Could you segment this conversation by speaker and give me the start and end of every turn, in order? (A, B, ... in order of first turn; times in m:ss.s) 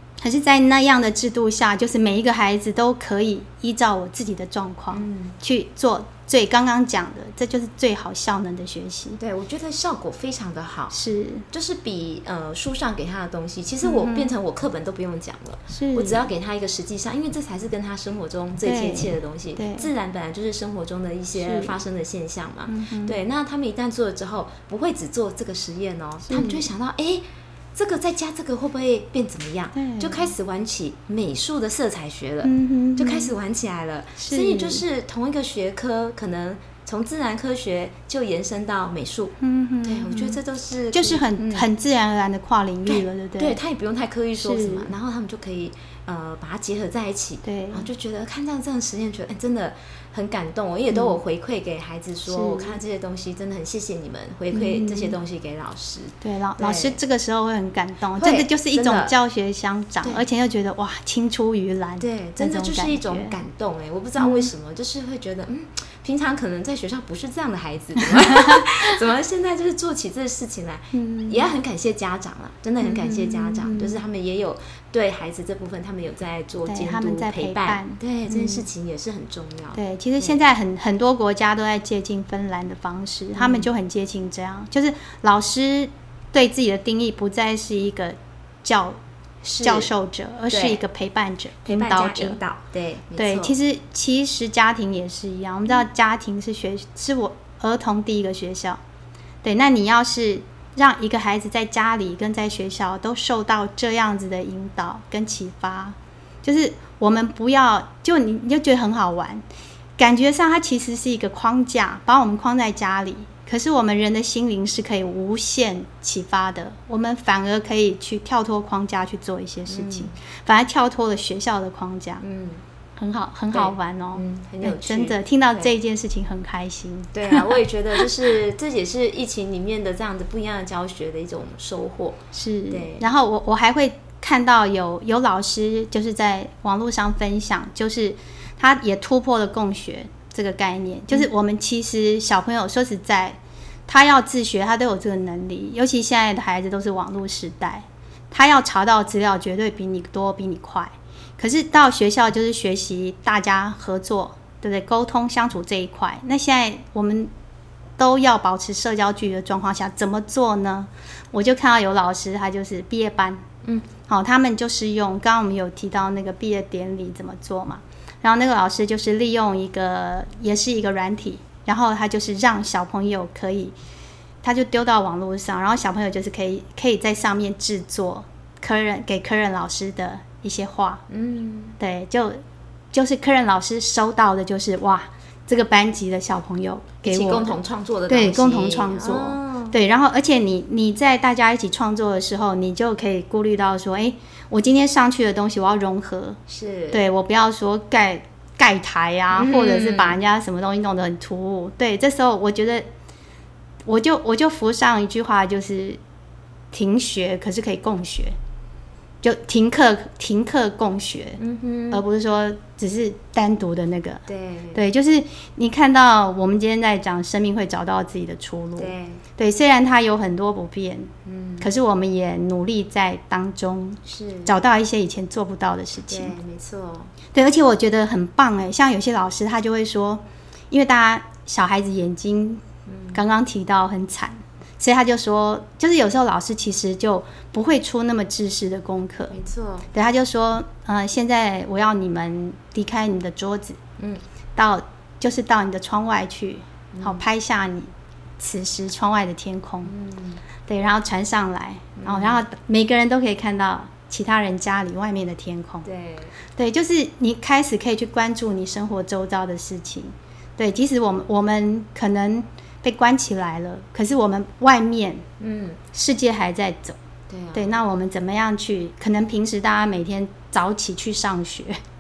0:00.2-0:09.2 A
0:04.9-0:05.3 B
0:09.2-0:11.0 B
0:10.9-0:11.5 A
0:11.5-0:41.7 B
0:13.8-0:14.3 A
0:15.7-0:16.3 A
0:18.6-0:19.9 A
0:21.4-0:21.8 A
0:22.7-0:23.2 A
0:26.3-0:26.6 A
0:29.8-0:30.3 A
0:32.4-0:33.4 A
0:34.2-0:34.8 A
0:39.4-0:40.4 A
0:40.9-0:43.6 A
0:42.9-0:57.0 B
0:44.4-0:44.9 A
0:47.4-0:47.9 A
0:50.9-0:51.2 A
0:52.3-0:52.8 A
0:54.5-0:55.2 A
0:56.2-1:03.4 A
0:58.2-0:59.1 B
1:02.0-1:20.4 B
1:04.2-1:04.5 A
1:10.9-1:11.5 A
1:12.8-1:14.0 A
1:16.7-1:18.7 A
1:19.8-1:29.0 A
1:23.4-1:23.7 B
1:29.4-1:29.9 B
1:29.6-1:32.4 A
1:30.5-1:30.8 B
1:31.7-1:33.6 B
1:33.2-1:38.8 A
1:39.4-1:49.4 A
1:50.0-2:02.2 A
1:59.7-2:00.1 B
2:02.2-2:02.6 B
2:03.0-2:07.4 A
2:03.5-2:05.7 B
2:07.1-2:12.2 B
2:12.3-2:23.4 A
2:12.7-2:13.1 B
2:23.9-2:37.3 A
2:38.0-2:43.4 A
2:44.0-2:53.8 A
2:54.4-3:01.0 A
3:01.1-3:01.8 B
3:01.8-3:02.4 A
3:02.9-3:07.6 A
3:07.0-3:09.8 B
3:08.1-3:16.4 A
3:16.5-3:17.0 B
3:16.9-3:22.9 A
3:19.3-3:20.2 B
3:23.9-3:26.0 A
3:26.7-3:28.4 A
3:29.2-3:31.4 A
3:31.4-3:32.0 B
3:31.9-3:46.4 A
3:34.3-3:34.8 B
3:38.8-3:39.2 B
3:41.3-3:41.7 B
3:44.0-3:44.6 B
3:46.1-3:47.1 B
3:47.3-3:52.6 A
3:52.9-3:53.2 B
3:53.1-3:59.4 A
3:59.3-3:59.9 B
3:59.9-4:03.8 A
4:04.6-4:09.9 A
4:06.9-4:07.3 B
4:09.8-4:10.4 B
4:10.7-4:15.9 A
4:12.0-4:12.4 B
4:15.8-4:16.3 B
4:16.5-4:25.2 A
4:25.4-4:25.8 B
4:25.9-4:27.0 A
4:27.3-4:27.8 B
4:27.5-4:31.8 A